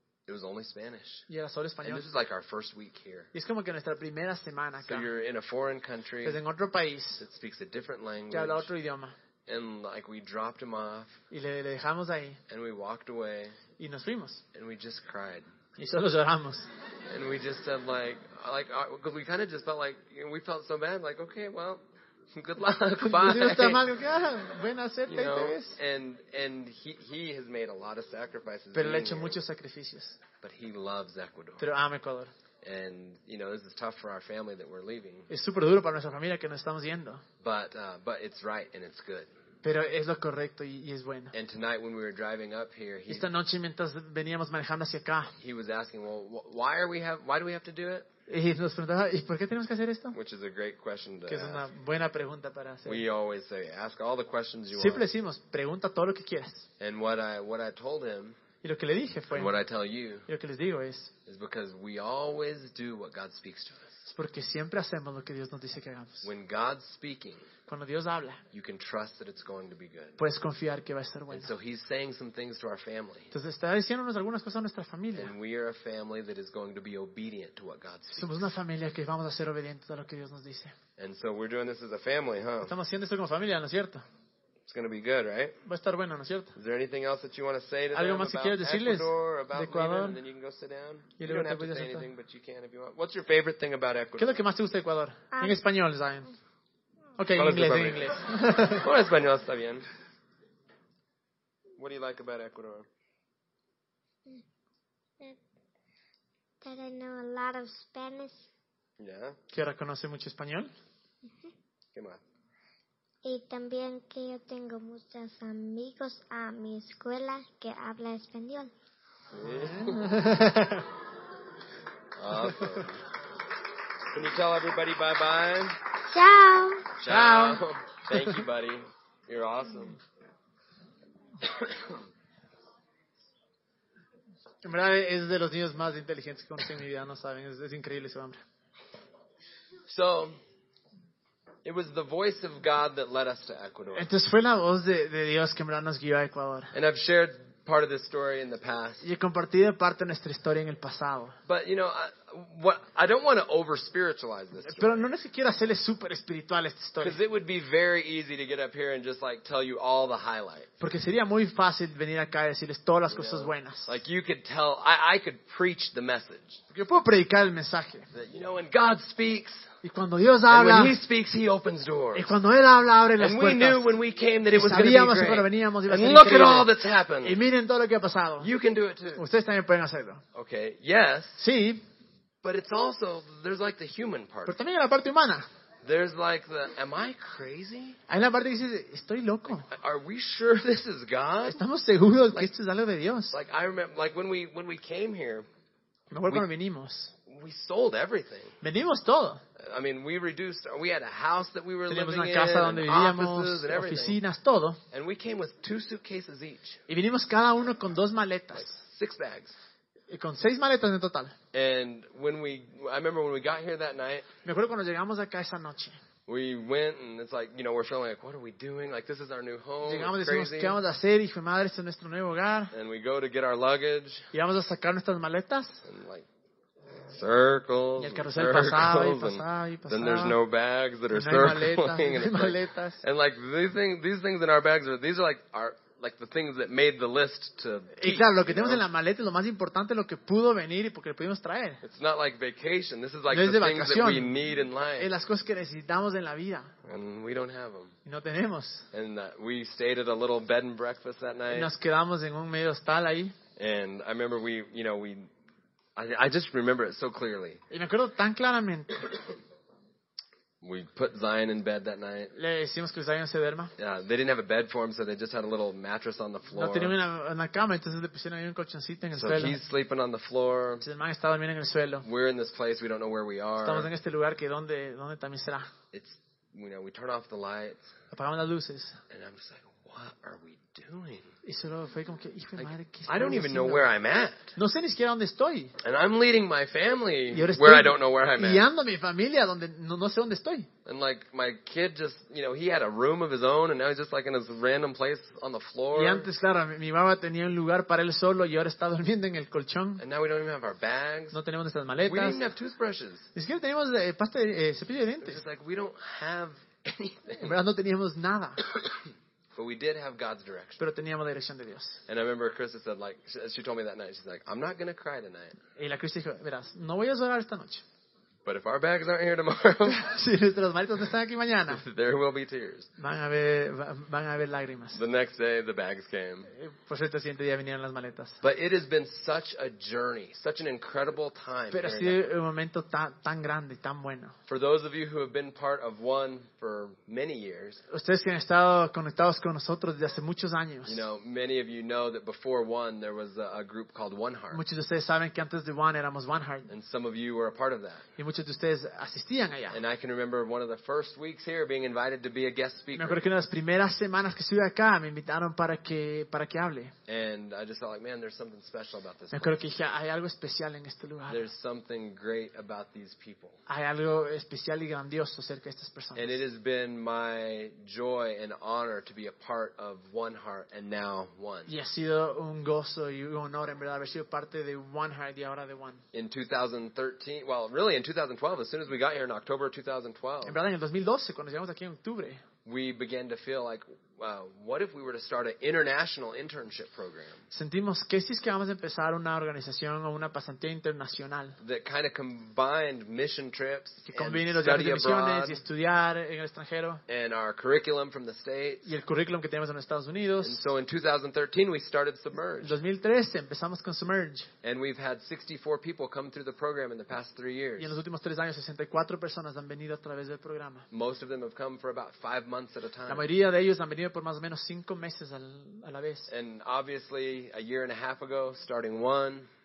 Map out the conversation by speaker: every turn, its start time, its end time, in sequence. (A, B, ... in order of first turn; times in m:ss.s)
0:00.3-0:01.3 A
0:01.3-0:02.1 B
0:01.8-0:03.3 A
0:03.3-0:05.1 B
0:04.8-0:06.4 A
0:06.2-0:07.2 B
0:07.2-0:08.7 A
0:08.3-0:09.2 B
0:09.5-0:11.2 A
0:11.3-0:12.4 B
0:12.5-0:13.6 A
0:13.8-0:14.4 B
0:14.5-0:15.5 A
0:15.8-0:16.7 B
0:17.1-0:21.8 A
0:22.3-0:23.8 A
0:23.0-0:25.8 B
0:25.1-0:29.4 A
0:28.7-0:30.2 B
0:30.4-0:31.7 A
0:31.6-0:32.3 B
0:32.6-0:35.3 A
0:35.3-0:37.2 B
0:37.4-0:39.3 A
0:39.6-0:41.3 B
0:41.3-0:43.3 A
0:43.1-0:45.4 B
0:45.4-0:48.1 A
0:48.3-0:50.2 B
0:50.1-0:51.7 A
0:51.3-0:53.1 B
0:52.9-0:55.1 A
0:54.7-0:56.6 B
0:56.8-0:58.4 A
0:58.6-0:59.6 B
0:59.3-1:00.3 A
1:00.3-1:01.1 B
1:01.2-1:04.0 A
1:04.1-1:06.3 B
1:06.2-1:07.5 A
1:07.7-1:08.4 B
1:08.5-1:10.2 A
1:10.2-1:11.5 B
1:11.3-1:13.3 A
1:13.3-1:15.3 B
1:15.1-1:18.4 A
1:18.2-1:20.8 B
1:21.0-1:22.7 A
1:22.6-1:24.0 B
1:24.7-1:25.6 A
1:25.6-1:26.5 B
1:26.6-1:34.4 A
1:27.9-1:30.2 B
1:31.2-1:32.1 B
1:34.2-1:36.3 B
1:35.3-1:35.6 C
1:37.2-1:38.9 B
1:37.4-1:38.1 A
1:38.7-1:39.9 A
1:41.8-1:42.9 A
1:46.6-1:48.5 C
1:49.0-1:49.4 A
1:49.5-1:50.7 B
1:51.2-1:51.5 C
1:51.9-1:52.2 A
1:53.2-1:58.7 C
1:59.3-2:00.2 A
1:59.4-2:00.9 B
2:02.2-2:03.1 A
2:02.5-2:02.8 B
2:04.1-2:05.8 A
2:06.1-2:06.9 C
2:07.0-2:10.0 A
2:07.1-2:08.4 B
2:11.4-2:12.0 A
2:14.6-2:18.4 B
2:19.9-2:20.4 A
2:21.6-2:24.1 A
2:23.9-2:26.7 B
2:26.7-2:29.0 A
2:29.0-2:31.4 B
2:31.4-2:35.0 A
2:34.6-2:37.2 B
2:37.0-2:40.7 A
2:40.8-2:44.0 B
2:43.1-2:46.6 A
2:46.7-2:48.1 B
2:48.1-2:49.7 A
2:49.8-2:51.0 B
2:50.5-2:52.3 A
2:52.1-2:54.0 B
2:53.2-2:57.4 A
2:54.5-2:58.5 B
2:58.4-2:59.2 A
2:59.2-3:00.2 B
3:00.3-3:01.4 A
3:01.4-3:01.8 B
3:02.4-3:04.6 A
3:04.4-3:05.5 B
3:05.8-3:08.0 A
3:08.1-3:09.7 B
3:09.6-3:11.6 A
3:11.4-3:13.3 B
3:13.3-3:15.5 A
3:16.1-3:17.1 B
3:17.2-3:18.6 A
3:18.6-3:19.4 B
3:19.6-3:24.2 A
3:21.9-3:24.8 B
3:24.9-3:26.8 A
3:26.9-3:28.8 B
3:28.6-3:29.6 A
3:30.1-3:31.4 B
3:31.5-3:34.3 A
3:34.4-3:36.0 B
3:36.3-3:40.8 A
3:39.8-3:42.7 B
3:42.7-3:44.3 A
3:44.3-3:45.9 B
3:45.8-3:46.3 A
3:47.1-3:58.8 A
3:48.0-3:50.4 B
3:51.1-3:53.0 B
3:58.0-4:01.8 B
4:01.8-4:05.1 A
4:03.3-4:06.7 B
4:06.8-4:08.0 A
4:08.0-4:08.9 B
4:08.9-4:11.7 A
4:11.5-4:13.4 B
4:13.6-4:15.3 A
4:16.0-4:17.6 A
4:17.7-4:19.1 B
4:20.6-4:22.3 A
4:22.4-4:23.7 B
4:23.8-4:27.0 A
4:26.5-4:29.6 B
4:29.2-4:30.8 A
4:30.8-4:32.1 B
4:32.0-4:33.9 A
4:33.6-4:35.7 B
4:35.9-4:37.9 A
4:38.1-4:39.0 B
4:39.1-4:41.4 A
4:41.4-4:43.9 B
4:42.6-4:44.5 A
4:44.6-4:45.8 B
4:45.8-4:48.6 A
4:47.3-4:50.7 B
4:50.8-4:56.3 A
4:55.9-5:00.0 B
5:00.0-5:01.4 A
5:01.3-5:02.4 B
5:02.0-5:03.3 A
5:03.4-5:05.4 B
5:05.2-5:07.5 A
5:07.4-5:08.6 B
5:09.6-5:10.8 A
5:10.8-5:12.0 B
5:12.1-5:15.6 A
5:15.8-5:17.8 B
5:18.4-5:20.1 A
5:19.8-5:21.8 B
5:21.7-5:22.9 A
5:23.0-5:25.0 B
5:24.9-5:26.5 A
5:26.5-5:28.4 B
5:28.4-5:32.3 A
5:31.7-5:34.4 B
5:34.5-5:37.8 A
5:37.9-5:41.0 B
5:40.8-5:44.6 A
5:44.5-5:46.7 B
5:46.7-5:48.1 A
5:48.2-5:49.8 B
5:49.7-5:53.2 A
5:52.9-5:56.9 B
5:57.1-5:59.6 A
5:59.3-6:01.5 B
6:01.3-6:03.6 A
6:03.7-6:06.4 B
6:06.2-6:11.7 A
6:11.7-6:16.0 B
6:16.1-6:20.6 A
6:20.4-6:22.4 B
6:22.6-6:27.4 A
6:27.5-6:31.6 B
6:31.6-6:35.6 A
6:34.1-6:37.0 B
6:37.1-6:38.9 A
6:38.8-6:40.6 B
6:40.4-6:42.8 A
6:42.6-6:44.5 B
6:44.6-6:48.0 A
6:47.8-6:50.9 B
6:50.9-6:53.2 A
6:53.1-6:56.3 B
6:56.3-6:59.5 A